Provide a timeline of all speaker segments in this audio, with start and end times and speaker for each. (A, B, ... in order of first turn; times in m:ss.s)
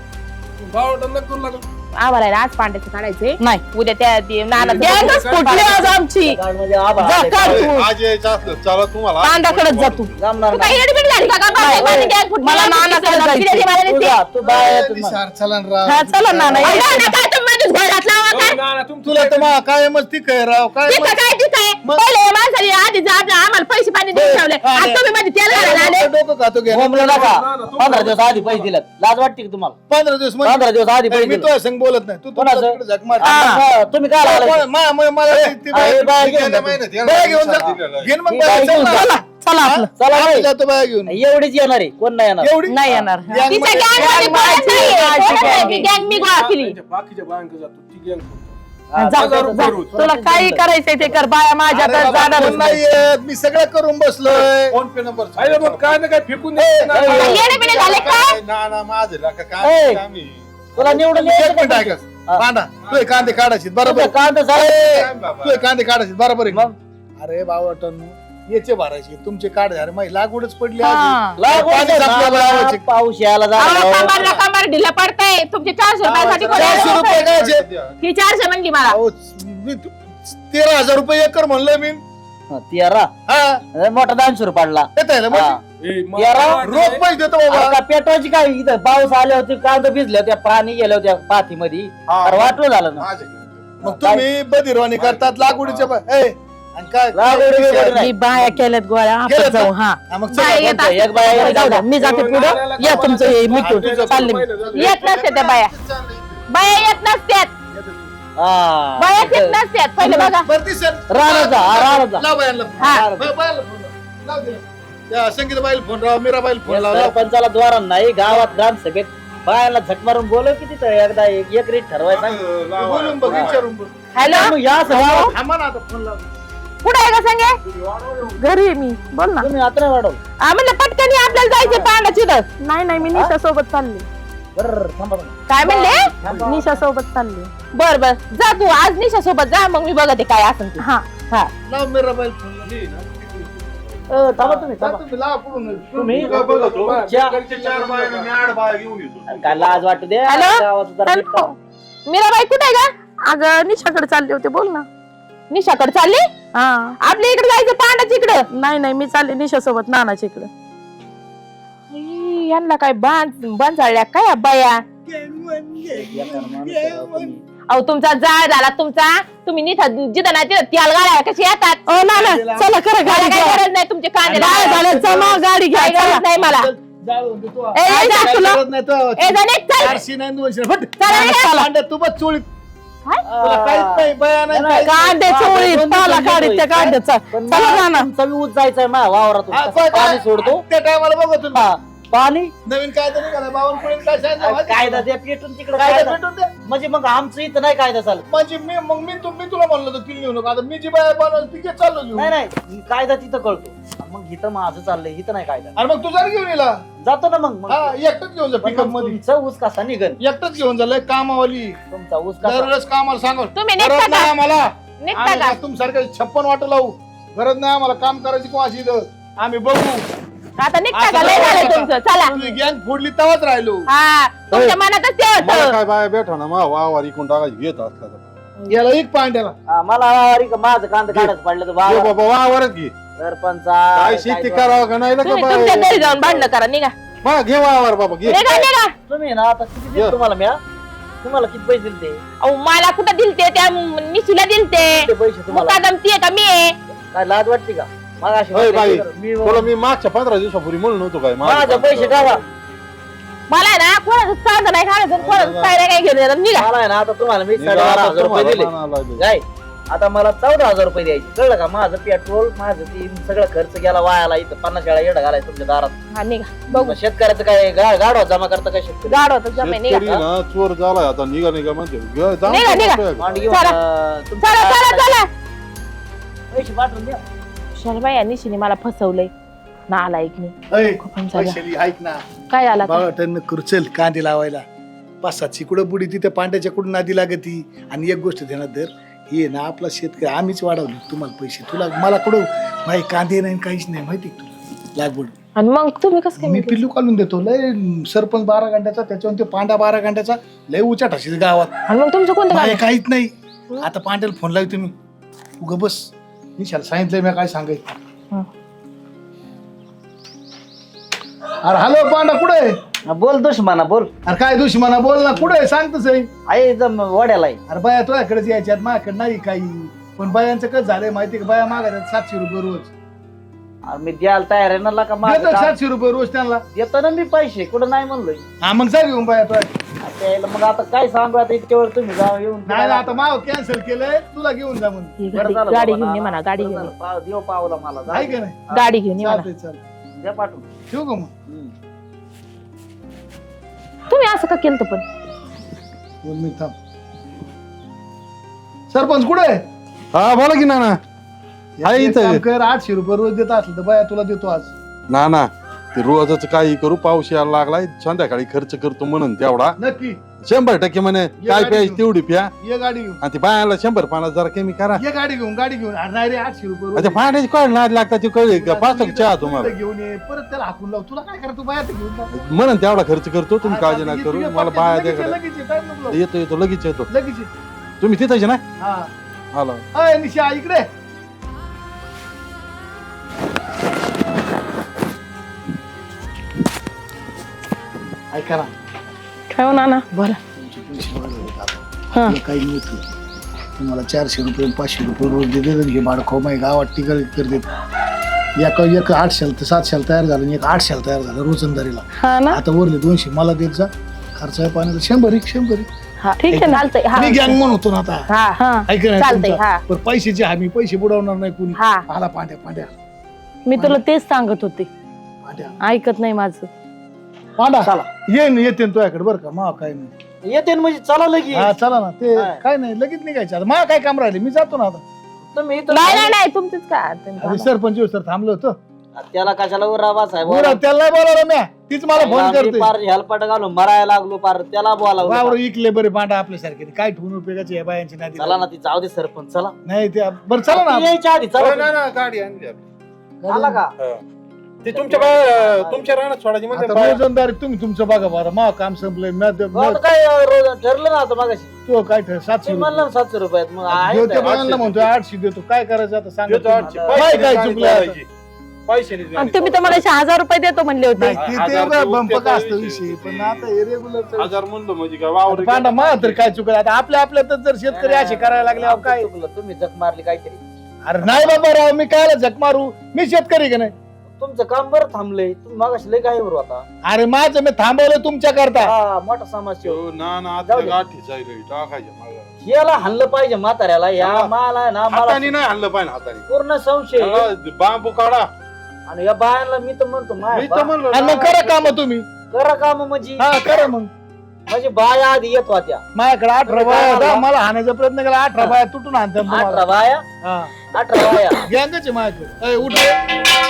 0:00.6-0:01.6 A
0:02.0-0:06.0 B
0:04.6-0:05.8 A
0:04.8-0:06.4 C
0:04.9-0:07.7 D
0:07.0-0:07.9 C
0:07.4-0:10.2 E
0:09.2-0:10.1 C
0:10.2-0:10.9 D
0:10.5-0:14.2 B
0:11.5-0:13.7 C
0:11.7-0:12.0 D
0:13.9-0:15.2 D
0:14.4-0:16.8 F
0:15.9-0:17.1 C
0:16.6-0:18.6 B
0:18.3-0:19.5 A
0:19.0-0:21.2 F
0:20.9-0:26.1 B
0:24.1-0:28.0 F
0:26.7-0:29.8 D
0:27.0-0:28.7 A
0:29.9-0:33.4 F
0:30.4-0:31.5 D
0:32.4-0:34.6 D
0:33.2-0:33.6 C
0:34.2-0:41.2 F
0:35.3-0:38.1 E
0:35.7-0:36.8 D
0:38.3-0:39.1 D
0:38.7-0:39.9 C
0:40.0-0:40.5 D
0:41.1-0:43.1 D
0:42.4-0:44.6 F
0:42.7-0:45.9 C
0:43.5-0:46.8 B
0:44.7-0:50.0 A
0:48.9-0:51.2 D
0:49.0-0:52.8 C
0:51.7-0:54.7 F
0:54.3-0:56.1 E
0:55.4-0:57.7 A
0:56.6-0:57.4 D
0:57.0-0:58.4 B
0:57.1-1:00.5 E
0:59.6-1:00.0 D
1:00.8-1:02.4 D
1:00.8-1:12.8 F
1:02.9-1:03.4 E
1:03.8-1:04.8 D
1:04.6-1:05.7 E
1:06.5-1:06.8 D
1:10.8-1:11.4 C
1:11.4-1:14.4 D
1:13.6-1:17.3 B
1:16.1-1:18.0 E
1:16.4-1:17.6 F
1:18.0-1:19.0 B
1:18.9-1:22.0 F
1:22.5-1:23.1 D
1:23.3-1:23.6 F
1:23.7-1:25.6 D
1:25.0-1:25.6 F
1:25.8-1:27.1 A
1:26.2-1:26.8 D
1:26.6-1:27.8 F
1:26.6-1:27.0 E
1:27.5-1:33.1 D
1:32.1-1:33.8 E
1:33.8-1:34.3 D
1:33.8-1:38.6 F
1:34.9-1:35.9 E
1:37.1-1:38.1 D
1:37.8-1:40.0 C
1:39.3-1:40.7 F
1:40.3-1:41.9 B
1:40.5-1:41.9 D
1:41.4-1:44.4 C
1:41.9-1:45.0 A
1:43.5-1:44.7 F
1:44.7-1:45.7 B
1:44.8-1:46.4 E
1:46.5-1:47.5 B
1:47.7-1:48.1 F
1:48.4-1:49.6 D
1:49.0-1:50.5 B
1:50.0-1:57.2 F
1:51.1-1:52.2 D
1:52.8-1:53.1 B
1:52.8-1:53.3 D
1:56.7-2:02.4 D
1:58.3-1:58.6 F
2:02.1-2:03.6 E
2:02.8-2:03.9 F
2:03.2-2:03.5 D
2:04.2-2:05.3 B
2:04.2-2:05.3 D
2:04.9-2:06.3 F
2:06.8-2:07.6 B
2:07.6-2:08.4 E
2:08.4-2:09.5 C
2:09.4-2:10.2 D
2:10.4-2:12.5 B
2:11.3-2:11.9 D
2:12.6-2:14.1 C
2:14.6-2:15.4 D
2:15.5-2:16.1 B
2:15.6-2:16.7 F
2:16.2-2:16.7 D
2:16.5-2:17.5 C
2:17.8-2:21.5 B
2:20.8-2:21.0 C
2:21.7-2:22.7 F
2:22.6-2:24.2 E
2:24.1-2:25.0 D
2:24.4-2:27.0 F
2:25.9-2:27.4 D
2:26.1-2:28.3 A
2:26.2-2:29.9 E
2:29.3-2:31.5 D
2:30.3-2:30.6 B
2:31.1-2:31.6 C
2:32.1-2:32.9 B
2:33.2-2:34.9 C
2:35.5-2:36.3 B
2:36.6-2:37.0 C
2:37.0-2:38.4 B
2:38.5-2:40.5 C
2:41.9-2:44.8 B
2:45.1-2:47.3 F
2:45.9-2:47.4 D
2:47.7-2:51.9 B
2:51.9-2:53.6 C
2:52.1-2:52.8 F
2:53.0-2:55.1 B
2:54.2-2:55.4 F
2:54.4-2:56.2 C
2:55.7-2:56.7 B
2:56.3-3:01.0 F
2:57.8-2:58.6 C
2:57.9-2:58.6 B
2:59.2-3:00.0 B
3:01.0-3:01.5 B
3:01.1-3:01.7 C
3:01.5-3:02.5 F
3:03.2-3:10.7 D
3:03.4-3:05.1 F
3:04.8-3:08.1 C
3:09.5-3:11.6 F
3:11.5-3:12.5 D
3:12.7-3:15.1 F
3:14.4-3:18.3 D
3:15.8-3:16.5 F
3:18.3-3:22.3 F
3:22.2-3:25.8 D
3:25.8-3:26.8 F
3:27.0-3:27.9 D
3:27.7-3:29.2 F
3:28.6-3:30.2 D
3:30.2-3:31.8 F
3:31.9-3:32.7 D
3:32.4-3:40.1 F
3:33.6-3:34.3 B
3:35.0-3:35.6 B
3:40.6-3:42.6 B
3:40.9-3:43.9 F
3:43.9-3:45.8 B
3:44.5-3:44.8 E
3:45.4-3:48.3 E
3:48.7-3:49.6 F
3:49.7-3:52.1 D
3:51.1-3:52.9 E
3:53.2-3:54.9 D
3:53.9-3:56.5 E
3:55.2-3:56.9 B
3:57.2-3:58.4 E
3:58.2-3:58.9 B
3:58.3-4:00.6 D
4:01.2-4:02.2 D
4:02.4-4:06.8 B
4:04.7-4:05.9 D
4:07.1-4:09.7 D
4:08.5-4:12.4 E
4:11.4-4:12.4 D
4:13.5-4:16.7 B
4:15.2-4:15.8 E
4:16.5-4:26.0 D
4:17.6-4:19.2 E
4:26.2-4:27.0 B
4:26.7-4:29.2 D
4:29.1-4:30.1 B
4:29.6-4:33.6 E
4:30.0-4:30.2 D
4:32.5-4:33.8 B
4:33.2-4:35.2 D
4:34.4-4:35.3 B
4:36.5-4:37.2 D
4:37.8-4:39.3 B
4:39.9-4:41.6 B
4:40.7-4:42.2 F
4:42.5-4:43.1 B
4:42.8-4:44.6 F
4:45.2-4:55.3 F
4:55.6-4:56.8 B
4:56.4-5:01.7 F
5:01.9-5:02.8 B
5:02.5-5:04.9 F
5:05.6-5:07.9 F
5:11.6-5:12.7 F
5:13.1-5:14.1 D
5:14.3-5:16.3 F
5:16.5-5:17.6 D
5:17.7-5:22.9 F
5:23.8-5:25.8 D
5:25.2-5:26.6 F
5:26.7-5:28.4 D
5:28.6-5:29.7 F
5:30.0-5:33.2 D
5:32.7-5:35.2 F
5:35.2-5:36.9 B
5:35.3-5:38.8 D
5:38.1-5:39.8 F
5:38.7-5:39.5 B
5:40.1-5:40.7 D
5:40.9-5:41.3 F
5:41.5-5:41.7 D
5:44.1-5:45.0 B
5:46.2-5:46.8 F
5:48.9-5:49.6 F
5:50.1-5:51.0 E
5:51.8-5:54.7 F
5:51.8-5:52.4 E
5:55.1-5:59.8 E
5:59.8-6:00.2 F
6:00.4-6:02.5 E
6:01.4-6:02.0 F
6:02.6-6:03.2 F
6:03.2-6:05.0 E
6:05.0-6:07.2 F
6:07.0-6:09.7 E
6:08.5-6:12.4 F
6:12.4-6:15.4 E
6:13.6-6:16.2 F
6:16.1-6:17.1 E
6:17.1-6:17.5 F
6:18.0-6:18.6 E
6:18.8-6:19.1 F
6:19.5-6:19.8 E
6:20.0-6:20.9 F
6:28.3-6:28.7 F
6:29.5-6:30.4 C
6:30.6-6:33.0 F
6:33.8-6:37.7 F
6:38.6-6:45.9 F
6:42.2-6:42.6 C
6:46.2-6:47.6 B
6:46.4-6:46.8 C
6:46.5-6:48.3 F
6:48.3-6:48.6 B
6:48.6-6:48.9 C
6:48.9-6:52.9 F
6:49.2-6:49.8 B
6:51.8-6:52.0 B
6:53.7-6:54.9 C
6:53.7-6:54.0 F
6:55.4-6:55.8 F
6:55.8-6:56.7 C
6:57.6-7:00.1 F
6:57.8-6:58.1 D
7:00.4-7:01.7 D
7:01.5-7:05.0 F
7:05.4-7:06.4 D
7:05.9-7:07.7 B
7:07.4-7:08.8 F
7:09.2-7:10.8 D
7:10.4-7:12.9 F
7:12.2-7:15.6 D
7:15.2-7:18.6 F
7:18.4-7:19.8 D
7:19.8-7:21.1 F
7:20.7-7:21.9 D
7:21.6-7:22.8 E
7:23.4-7:23.8 F
7:23.5-7:23.9 D
7:24.8-7:27.2 E
7:24.9-7:26.2 D
7:26.7-7:30.0 F
7:29.7-7:31.7 D
7:31.9-7:33.1 F
7:32.6-7:34.5 D
7:33.9-7:38.2 F
7:34.4-7:35.1 E
7:36.5-7:38.3 E
7:36.8-7:37.9 D
7:38.9-7:40.0 E
7:39.4-7:41.4 C
7:41.2-7:44.6 F
7:41.4-7:43.7 E
7:44.4-7:46.4 E
7:45.5-7:49.3 F
7:47.9-7:50.6 D
7:51.1-7:53.9 F
7:54.3-7:56.8 D
7:57.0-7:58.9 F
7:58.8-8:00.0 D
7:59.8-8:02.5 E
8:00.6-8:01.0 D
8:02.6-8:05.6 D
8:04.2-8:04.5 E
8:05.1-8:06.5 E
8:06.5-8:07.5 D
8:07.2-8:08.5 E
8:09.1-8:10.9 D
8:10.5-8:11.8 E
8:11.1-8:12.3 F
8:12.5-8:13.5 D
8:13.4-8:14.1 F
8:14.7-8:16.0 D
8:16.2-8:19.9 F
8:16.7-8:17.4 D
8:19.5-8:20.2 D
8:20.4-8:20.8 F
8:20.9-8:21.7 D
8:21.6-8:23.2 F